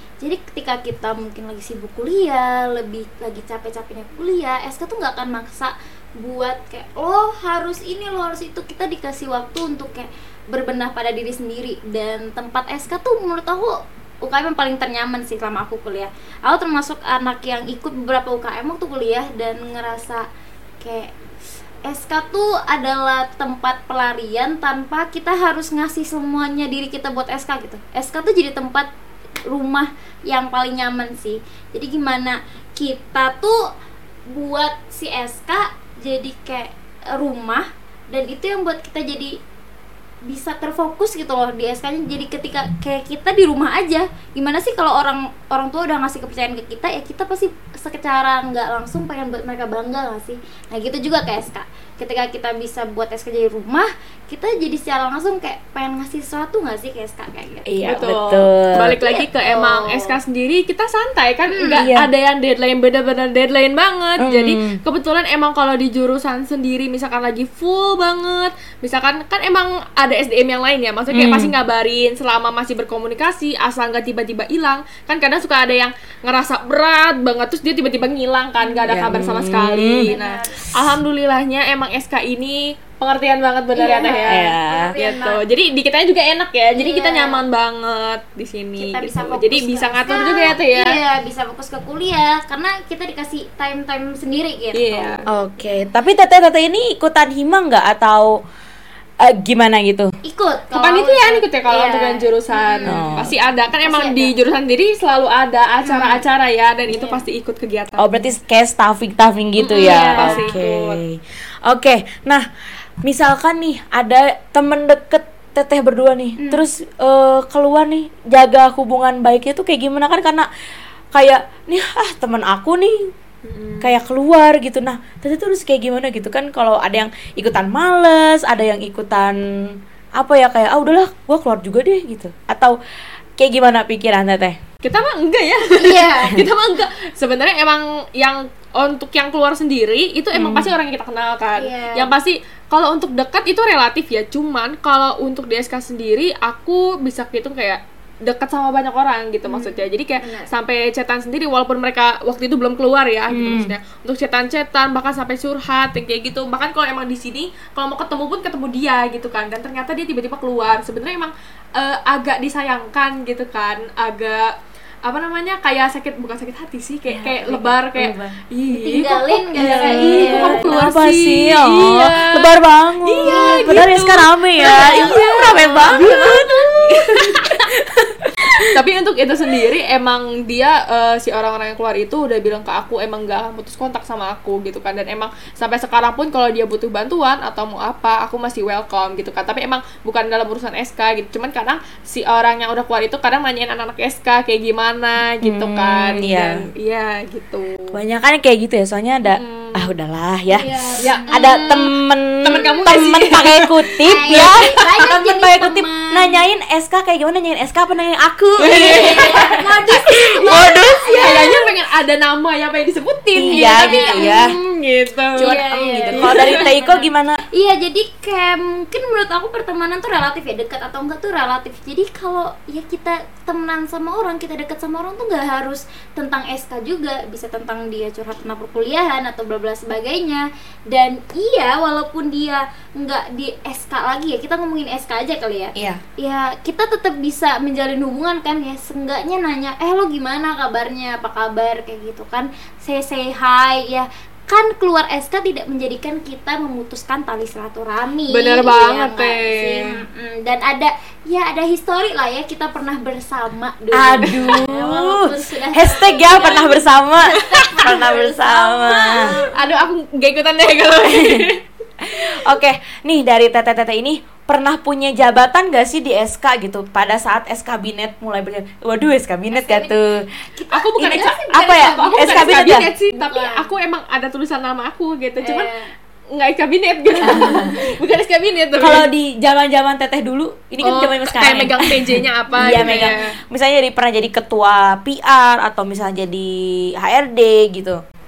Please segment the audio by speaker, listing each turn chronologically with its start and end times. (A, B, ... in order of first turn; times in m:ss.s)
0:00.2-0:20.3 A
0:20.8-0:21.1 A
0:21.8-0:28.9 A
0:29.5-0:33.6 A
0:34.3-0:39.4 A
0:40.2-0:57.7 A
0:57.7-0:59.0 B
0:57.8-1:31.0 C
0:59.0-1:00.2 A
1:01.5-1:01.9 A
1:01.7-1:02.1 B
1:04.2-1:04.8 B
1:11.1-1:11.5 B
1:18.6-1:19.0 A
1:18.9-1:20.1 B
1:20.0-1:20.6 A
1:23.7-1:25.4 A
1:24.3-1:24.9 B
1:26.7-1:27.4 A
1:28.8-1:35.8 A
1:34.7-1:35.2 C
1:35.3-1:38.4 B
1:39.2-1:40.1 B
1:40.2-1:43.1 A
1:40.8-1:48.2 C
1:42.9-1:43.3 B
1:43.8-1:44.3 A
1:45.8-1:46.2 A
1:46.9-1:47.2 A
1:48.0-1:52.4 B
1:49.6-1:51.0 C
1:49.7-1:50.6 A
1:53.0-2:00.5 B
1:56.4-1:56.6 A
2:01.1-2:03.1 B
2:03.4-2:03.9 C
2:03.8-2:12.8 B
2:13.4-2:14.6 B
2:14.8-2:44.5 C
2:15.7-2:16.5 A
2:20.3-2:20.7 B
2:21.6-2:22.2 A
2:29.5-2:30.5 A
2:33.3-2:33.7 B
2:45.0-2:57.7 C
2:47.1-2:48.4 B
2:48.7-2:50.8 A
2:49.6-2:58.7 B
2:53.2-2:53.9 A
2:54.6-2:57.3 A
2:58.6-3:18.0 C
3:15.4-3:16.7 B
3:17.9-3:29.5 B
3:19.2-3:19.9 C
3:20.5-3:21.7 A
3:21.0-3:24.9 C
3:24.1-3:26.4 A
3:28.6-3:31.8 A
3:28.6-3:35.6 C
3:30.1-3:31.2 B
3:33.4-3:34.5 B
3:33.5-3:34.5 A
3:35.4-4:16.8 A
3:35.4-3:37.4 B
3:36.1-3:36.6 C
3:55.8-3:56.0 B
4:08.3-4:09.9 C
4:13.9-4:19.3 B
4:14.2-4:14.6 C
4:17.3-4:18.0 C
4:17.3-4:19.8 A
4:19.1-4:21.6 C
4:21.0-4:21.5 B
4:22.0-4:30.3 B
4:29.5-4:30.0 A
4:30.5-4:32.6 A
4:30.7-4:35.7 C
4:31.0-4:32.9 B
4:33.2-4:33.7 A
4:35.4-4:35.9 A
4:36.3-4:39.1 C
4:37.2-4:37.7 B
4:38.8-4:48.0 B
4:40.8-4:43.3 C
4:42.6-4:43.2 A